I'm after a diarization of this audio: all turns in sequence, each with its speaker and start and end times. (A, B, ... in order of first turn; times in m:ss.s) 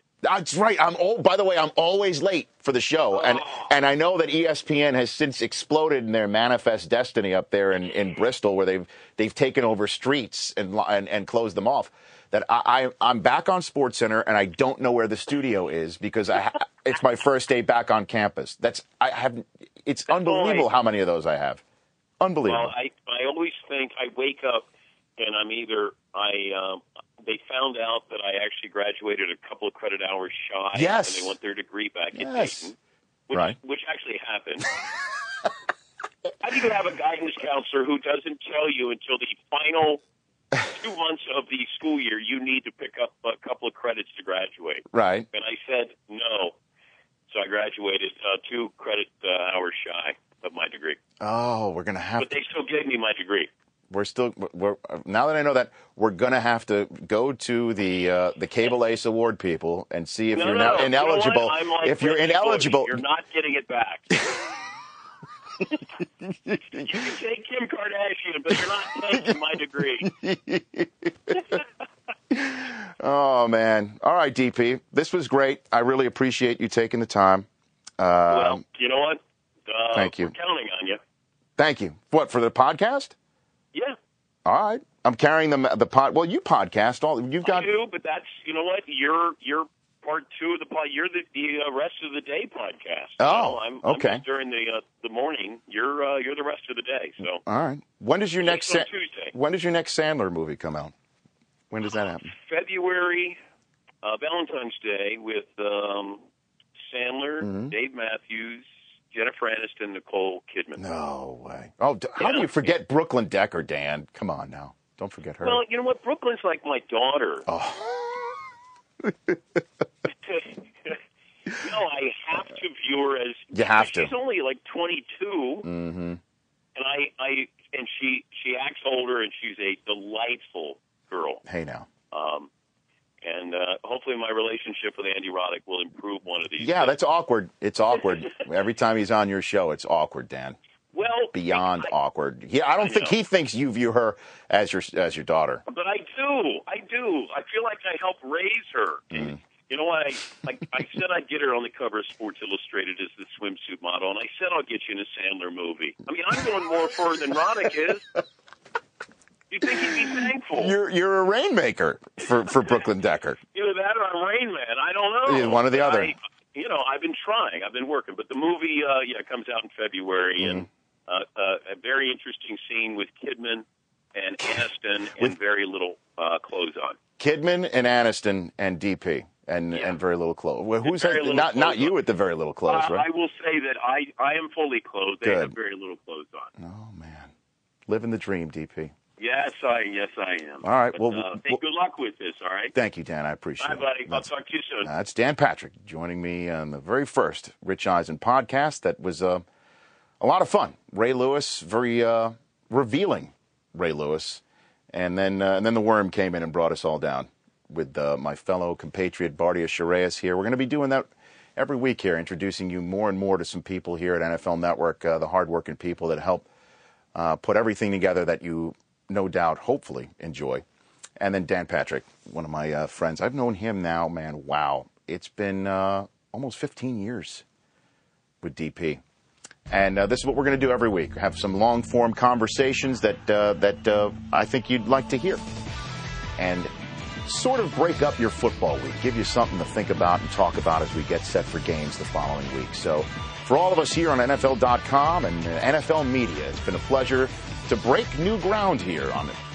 0:00.2-0:21.6 A
0:03.1-0:03.7 B
0:20.1-0:20.7 B
0:22.2-0:22.7 A
0:22.4-0:24.6 B
0:25.2-0:32.7 B
0:30.7-0:31.4 A
0:32.1-0:32.7 A
0:33.3-0:34.6 B
0:33.3-0:33.6 A
0:36.4-0:40.0 B
0:40.6-0:46.6 B
0:44.9-0:45.3 A
0:47.3-0:51.0 B
0:51.2-0:52.4 A
0:52.2-0:53.5 B
0:53.9-1:03.0 A
1:00.3-1:04.1 B
1:05.6-1:07.1 A
1:06.8-1:10.1 B
1:10.0-1:11.6 A
1:12.3-1:17.5 A
1:18.0-1:18.6 A
1:18.3-1:21.0 B
1:19.9-1:20.3 A
1:21.6-1:23.1 A
1:24.4-1:27.7 A
1:27.4-1:37.4 B
1:33.2-1:34.2 A
1:37.4-1:40.9 A
1:38.4-1:39.3 B
1:41.7-1:42.3 A
1:42.3-1:43.4 B
1:44.0-1:46.2 B
1:46.9-1:50.8 B
1:47.4-1:47.7 A
1:50.8-1:55.6 A
1:52.2-1:52.5 B
1:55.4-1:57.4 B
1:57.5-1:58.2 A
1:59.0-1:59.4 A
2:00.2-2:01.0 B
2:01.6-2:05.7 B
2:03.5-2:04.1 A
2:05.6-2:06.2 A
2:06.7-2:11.4 B
2:11.4-2:11.9 A
2:12.1-2:12.5 B
2:13.2-2:16.9 B
2:16.6-2:20.6 A
2:20.9-2:21.9 B
2:21.3-2:25.6 A
2:22.8-2:23.1 B
2:25.7-2:38.0 B
2:29.1-2:29.4 A
2:39.5-2:40.8 B
2:39.6-2:43.4 A
2:43.5-2:57.0 B
2:45.2-2:46.1 A
2:50.4-2:50.7 A
2:57.2-3:03.0 A
2:59.7-3:00.0 B
3:00.8-3:02.0 B
3:02.7-3:06.5 B
3:05.2-3:05.6 A
3:06.6-3:07.3 A
3:07.9-3:08.9 A
3:09.2-3:12.7 B
3:10.6-3:11.6 A
3:12.7-3:14.3 A
3:13.6-3:14.9 B
3:14.8-3:19.4 A
3:20.2-3:36.5 A
3:37.1-3:40.6 A
3:41.2-3:47.4 A
3:48.4-3:49.0 A
3:49.7-3:55.4 A
3:56.4-3:56.7 A
3:57.2-4:09.4 A